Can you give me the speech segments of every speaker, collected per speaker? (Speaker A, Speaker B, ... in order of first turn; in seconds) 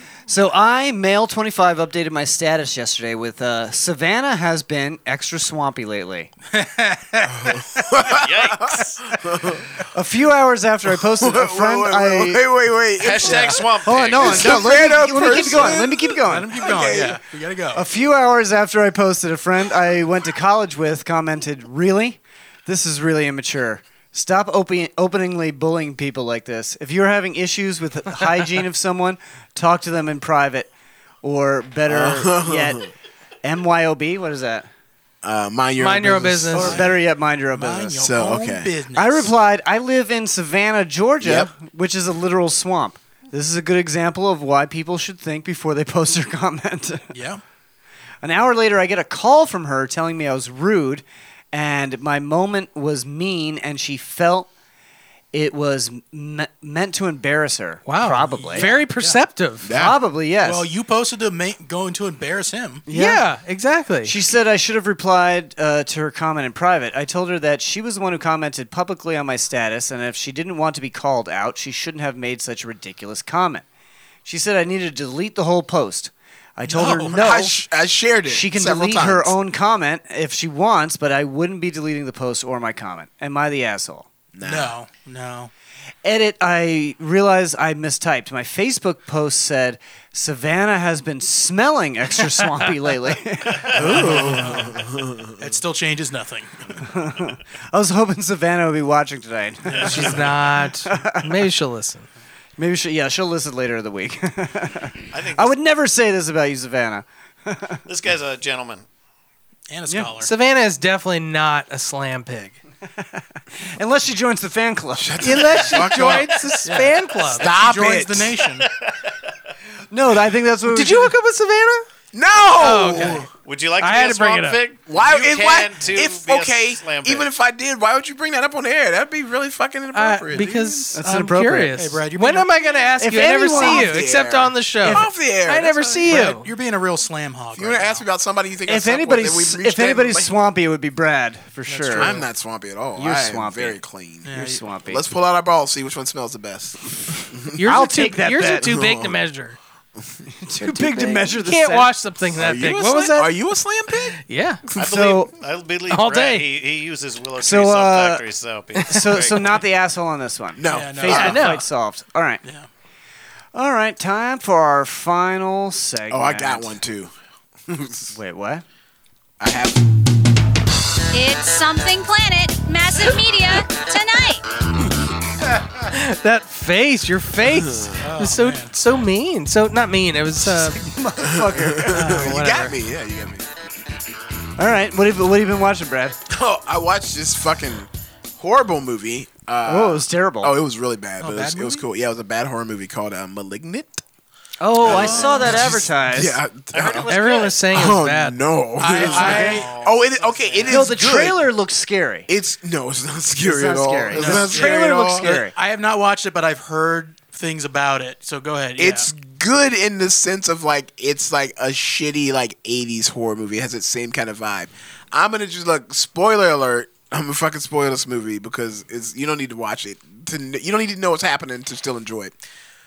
Speaker A: 0.3-6.3, 9.9-12.4, 13.2-17.1, 17.7-30.7, 31.2-32.9, 33.4-34.7, 36.5-38.1, 38.9-47.1, 48.2-54.5, 55.3-58.7, 59.7-60.7, 62.9-63.2, 64.0-73.7, 74.2-77.6, 78.3-84.1, 86.0-94.6, 96.8-101.4, 102.6-107.8, 113.0-116.2, 119.9-121.1, 130.9-131.8, 133.0-133.9, 138.7-142.2, 143.0-143.8, 144.3-145.1, 147.6-148.7, 150.4-151.9, 154.8-155.3, 157.4-158.2, 158.8-162.4, 163.5-166.8, 168.1-168.7, 180.4-182.3, 184.6-186.2, 189.7-190.6, 194.6-196.4, 199.0-199.7, 200.7-202.3, 203.4-205.5
Speaker B: 6.5-7.8, 16.2-17.9, 36.6-37.0, 37.5-39.3, 47.1-47.4, 58.3-59.2, 60.4-62.9, 76.7-77.3, 84.4-85.5, 93.7-96.7, 99.8-100.2, 109.7-110.3, 116.6-118.7, 131.7-132.8, 136.1-138.1, 141.7-142.2, 144.2-144.6, 160.7-161.6, 178.0-178.8, 191.2-191.8, 194.8-195.8, 198.8-200.9, 204.1-209.1
Speaker C: 7.3-9.6, 11.1-13.7, 14.2-17.2, 31.9-32.9, 35.2-36.8, 38.0-38.7, 41.2-41.5, 59.6-60.0, 76.8-79.3, 84.4-84.8, 93.8-95.2, 115.0-116.4, 117.4-118.4, 122.1-123.3, 124.9-130.9, 133.5-136.3, 137.6-140.3, 141.9-144.4, 144.9-146.8, 147.3-147.6, 148.6-149.2, 152.4-154.2, 154.7-155.0, 160.6-161.4, 166.1-167.1, 167.7-168.1, 169.4-169.8, 177.5-177.9, 181.2-183.5, 186.3-194.0, 194.8-197.1, 197.7-201.5, 202.3-205.4, 208.8-222.3
Speaker D: 8.1-9.0, 13.0-14.7, 99.7-100.2, 105.1-105.5, 107.9-108.8, 118.6-119.3, 123.4-127.3, 154.8-159.6, 195.0-195.5, 196.7-197.6, 199.0-200.8
Speaker E: 35.8-36.8, 57.9-59.7, 62.9-64.1, 99.8-102.1, 110.2-112.6, 115.2-117.5, 120.7-121.9, 122.5-123.3, 123.8-124.6, 129.9-136.5, 147.5-149.6, 150.6-153.4, 154.2-154.6, 155.9-156.5, 161.1-161.6, 175.9-180.8, 181.9-182.8, 197.1-198.4
Speaker F: 171.1-174.5